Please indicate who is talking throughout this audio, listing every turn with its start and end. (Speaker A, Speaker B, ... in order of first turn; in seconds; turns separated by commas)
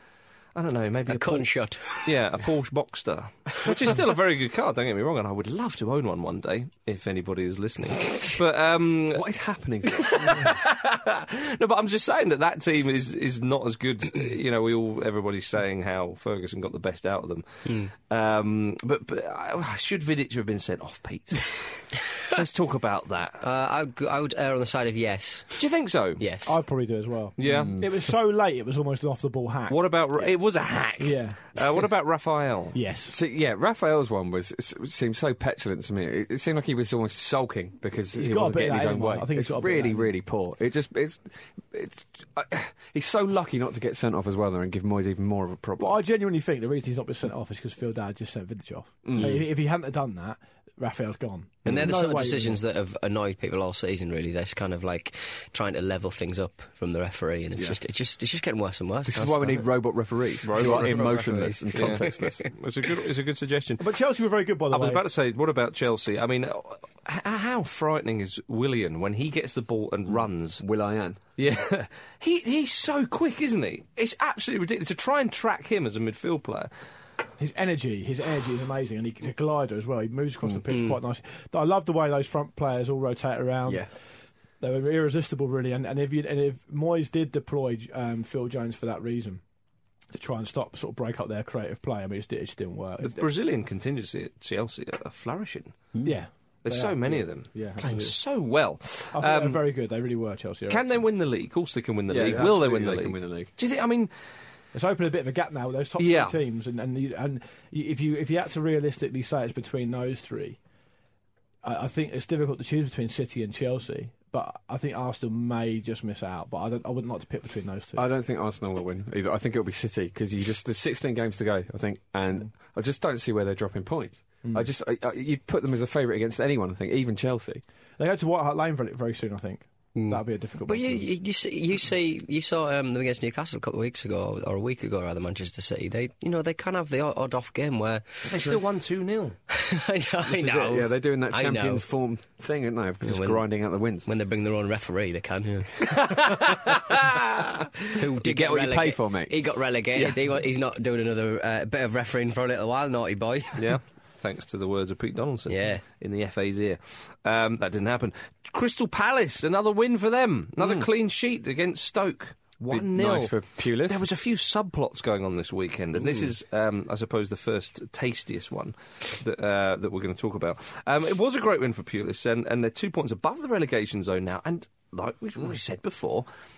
Speaker A: 0.6-9.3, Speaker B: 1.1-2.1, Speaker C: 9.1-10.6, Speaker A: 9.9-23.4, Speaker B: 17.6-17.9, Speaker B: 23.4-25.6, Speaker A: 25.6-26.3, Speaker B: 26.2-26.6, Speaker D: 26.5-29.8, Speaker A: 27.4-27.8, Speaker C: 27.4-27.9, Speaker A: 29.7-32.8, Speaker D: 31.0-31.4, Speaker D: 32.7-33.1, Speaker C: 33.1-46.0, Speaker D: 38.1-40.1, Speaker D: 45.8-52.6, Speaker C: 49.0-49.5, Speaker B: 51.7-59.7, Speaker C: 59.1-62.5, Speaker A: 60.4-63.9, Speaker B: 60.5-62.3, Speaker D: 63.8-65.0, Speaker A: 64.7-70.6, Speaker C: 70.6-71.2, Speaker A: 71.4-76.7, Speaker D: 77.4-83.9, Speaker B: 80.7-81.0, Speaker D: 84.6-89.4, Speaker D: 90.1-93.3, Speaker A: 93.0-95.8, Speaker D: 96.0-98.2, Speaker A: 96.6-99.6, Speaker D: 99.1-101.0, Speaker A: 100.7-104.1, Speaker C: 102.1-103.5, Speaker D: 104.7-110.6, Speaker A: 106.0-106.4, Speaker D: 111.6-118.0, Speaker C: 118.0-127.6, Speaker D: 128.0-131.1, Speaker B: 129.9-138.3, Speaker A: 138.3-139.4, Speaker B: 139.5-141.9, Speaker C: 140.2-144.1, Speaker B: 143.0-143.4, Speaker B: 144.1-146.8, Speaker B: 147.9-153.7, Speaker C: 148.2-149.3, Speaker A: 153.6-176.3, Speaker B: 155.5-155.8, Speaker C: 162.7-164.0